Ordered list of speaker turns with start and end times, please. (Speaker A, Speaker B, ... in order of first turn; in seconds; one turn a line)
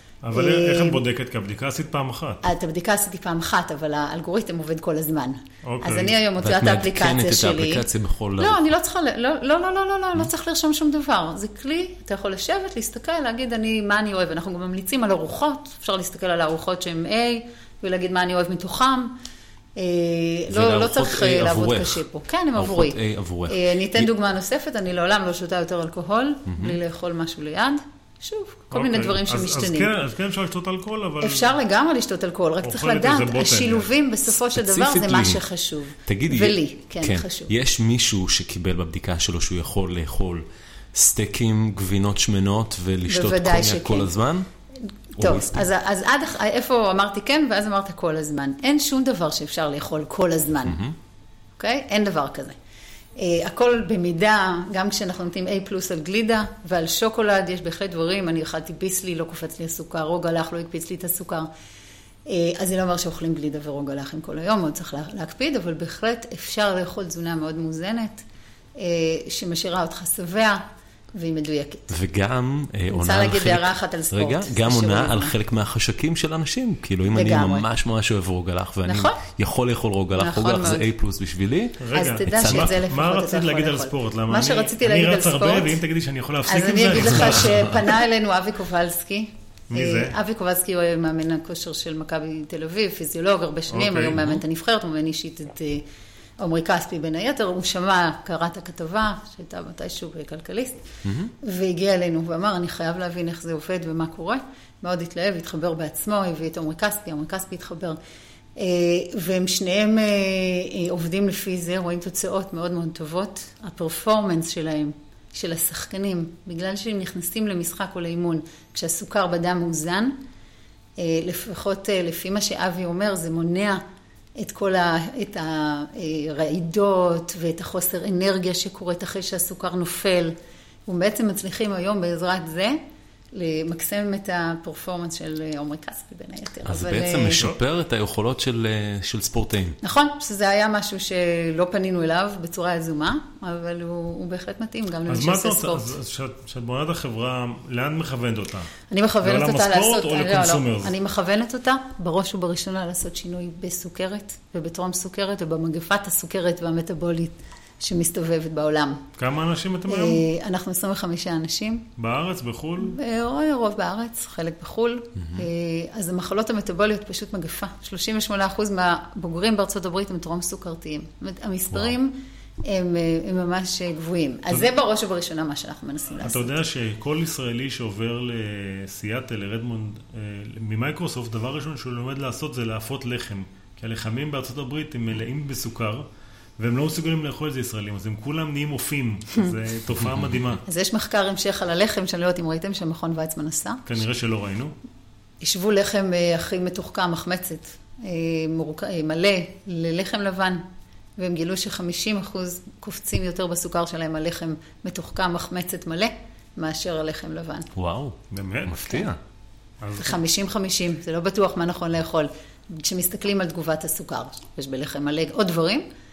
Speaker A: 0.2-2.4
Speaker B: 0.3-1.0
Speaker B: 2.4-7.8
Speaker A: 5.6-6.2
Speaker C: 6.4-8.7
Speaker B: 8.4-19.1
Speaker B: 19.8-29.9
Speaker C: 20.5-22.0
Speaker C: 22.5-24.1
Speaker C: 26.5-26.8
Speaker A: 28.7-31.5
Speaker B: 31.2-37.5
Speaker A: 32.6-33.9
Speaker C: 34.3-35.4
Speaker C: 36.0-44.5
Speaker B: 43.0-44.1
Speaker B: 44.8-50.8
Speaker C: 45.2-45.7
Speaker C: 50.6-51.0
Speaker B: 51.6-52.5
Speaker B: 53.2-61.5
Speaker B: 62.2-68.2
Speaker B: 68.8-70.6
Speaker B: 71.1-71.9
Speaker C: 71.9-82.8
Speaker B: 72.9-75.3
Speaker B: 77.1-77.6
Speaker B: 78.8-79.2
Speaker B: 80.2-80.9
Speaker A: 81.8-87.9
Speaker B: 81.9-85.8
Speaker B: 86.5-95.8
Speaker A: 89.7-90.1
Speaker A: 93.7-94.4
Speaker B: 96.4-100.8
Speaker C: 101.0-101.3
Speaker B: 101.4-108.0
Speaker B: 108.6-120.2
Speaker B: 121.0-123.8
Speaker B: 124.4-130.3
Speaker B: 130.9-132.8
Speaker B: 133.3-137.5
Speaker C: 136.6-139.8
Speaker B: 139.8-145.9
Speaker A: 145.1-148.7
Speaker B: 148.9-159.0
Speaker A: 149.2-150.9
Speaker A: 159.2-160.2
Speaker B: 159.9-161.9
Speaker A: 162.0-163.0
Speaker B: 162.8-176.6
Speaker A: 176.2-186.1
Speaker A: 186.6-190.6
Speaker C: 190.0-190.4
Speaker B: 190.7-193.8
Speaker A: 193.9-194.7
Speaker B: 195.4-200.6
Speaker B: 201.2-207.7
Speaker C: 207.7-209.2
Speaker A: 208.3-208.9
Speaker A: 209.8-210.2
Speaker B: 210.0-215.8